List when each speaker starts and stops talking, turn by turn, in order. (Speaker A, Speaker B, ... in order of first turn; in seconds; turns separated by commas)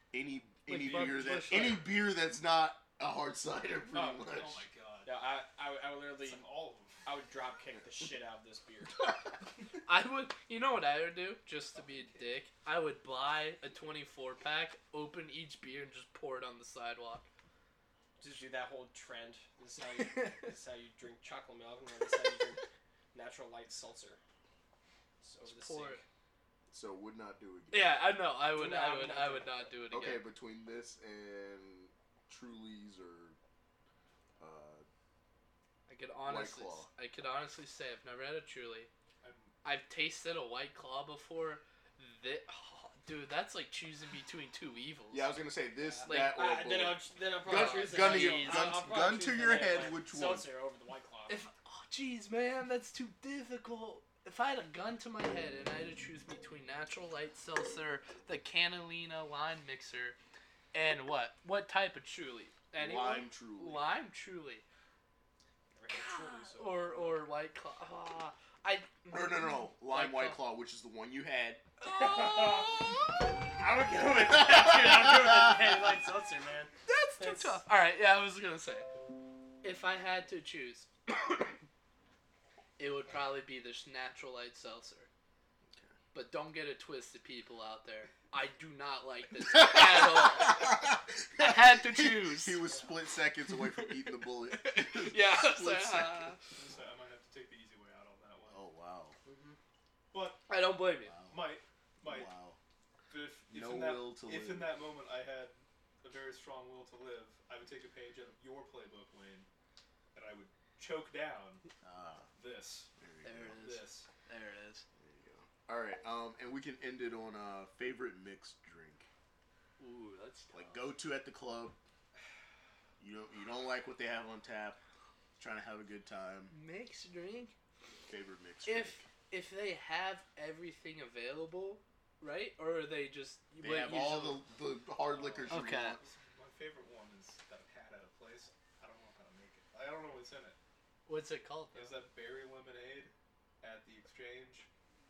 Speaker A: 0.1-4.6, Speaker B: 0.7-1.9, Speaker C: 0.8-1.9, Speaker D: 3.9-4.3, Speaker C: 4.1-5.1, Speaker D: 5.0-6.5, Speaker C: 6.2-7.0, Speaker D: 7.0-9.1, Speaker B: 9.8-17.3, Speaker D: 18.2-24.2, Speaker B: 20.0-20.5, Speaker D: 25.2-26.0, Speaker B: 25.4-26.0, Speaker A: 26.7-28.0, Speaker B: 27.7-30.2, Speaker D: 28.5-29.7, Speaker A: 29.9-33.4, Speaker A: 34.4-34.9, Speaker B: 35.9-38.9, Speaker A: 36.2-36.9, Speaker C: 39.2-39.5, Speaker B: 39.6-45.4, Speaker A: 45.1-50.5, Speaker D: 45.8-51.4, Speaker B: 46.0-46.4, Speaker B: 47.5-48.9, Speaker B: 51.3-60.2, Speaker B: 60.7-64.6, Speaker A: 62.7-63.9, Speaker D: 65.7-67.2, Speaker B: 65.9-70.4, Speaker A: 69.1-71.6, Speaker B: 71.8-72.9, Speaker D: 71.9-77.6, Speaker A: 74.5-75.5, Speaker B: 76.8-79.0, Speaker B: 79.6-81.1, Speaker B: 82.8-85.1, Speaker A: 85.7-85.9, Speaker B: 86.1-92.6, Speaker A: 89.5-96.4, Speaker B: 93.5-96.4, Speaker C: 96.5-98.6, Speaker A: 98.5-99.2, Speaker D: 99.2-99.6, Speaker C: 100.1-100.5, Speaker B: 100.5-101.1, Speaker A: 101.0-102.6, Speaker C: 101.3-102.3, Speaker C: 103.1-109.5, Speaker A: 103.5-104.8, Speaker C: 110.1-111.6, Speaker A: 111.8-112.3, Speaker C: 112.4-112.9, Speaker A: 113.0-113.6, Speaker B: 113.2-114.8, Speaker C: 113.6-114.1, Speaker A: 115.0-119.1, Speaker B: 119.8-120.8, Speaker A: 120.5-121.8, Speaker A: 123.0-124.8, Speaker A: 125.4-126.5, Speaker B: 126.5-127.5, Speaker A: 128.1-129.1, Speaker B: 128.7-134.4, Speaker A: 133.6-136.0, Speaker C: 135.0-140.6, Speaker B: 135.5-136.0, Speaker B: 141.1-141.9, Speaker C: 141.7-144.7